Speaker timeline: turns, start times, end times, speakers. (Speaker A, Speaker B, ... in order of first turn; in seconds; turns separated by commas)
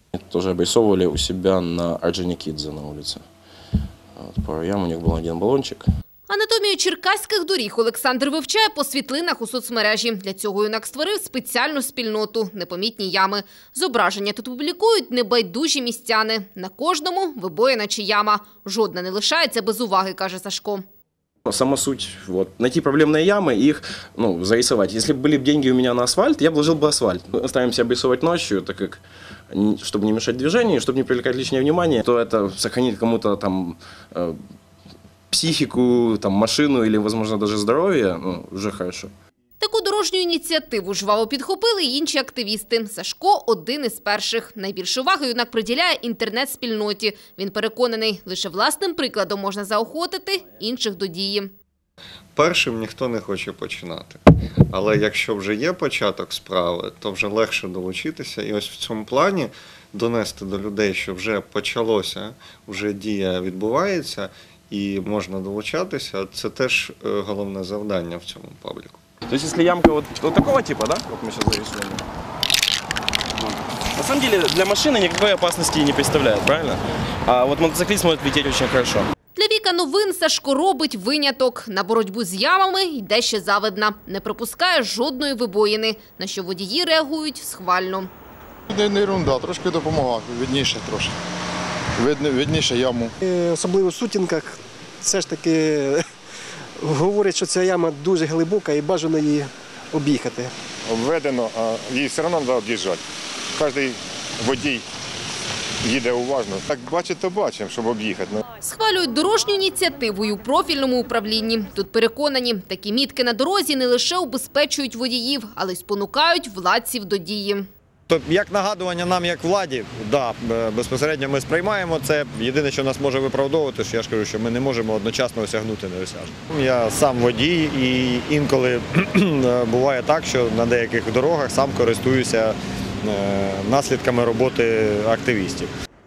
Speaker A: 0.1-3.2, Speaker A: 4.2-5.9, Speaker B: 6.3-20.8, Speaker A: 21.5-34.4, Speaker A: 35.3-39.1, Speaker B: 39.6-51.5, Speaker C: 52.4-69.0, Speaker A: 69.3-72.0, Speaker A: 74.0-79.1, Speaker B: 79.4-88.1, Speaker D: 88.7-91.2, Speaker D: 92.0-93.1, Speaker E: 93.2-96.0, Speaker E: 96.8-100.5, Speaker F: 100.9-103.0, Speaker F: 103.5-104.8, Speaker F: 105.8-108.5, Speaker B: 108.6-117.7, Speaker G: 118.1-135.7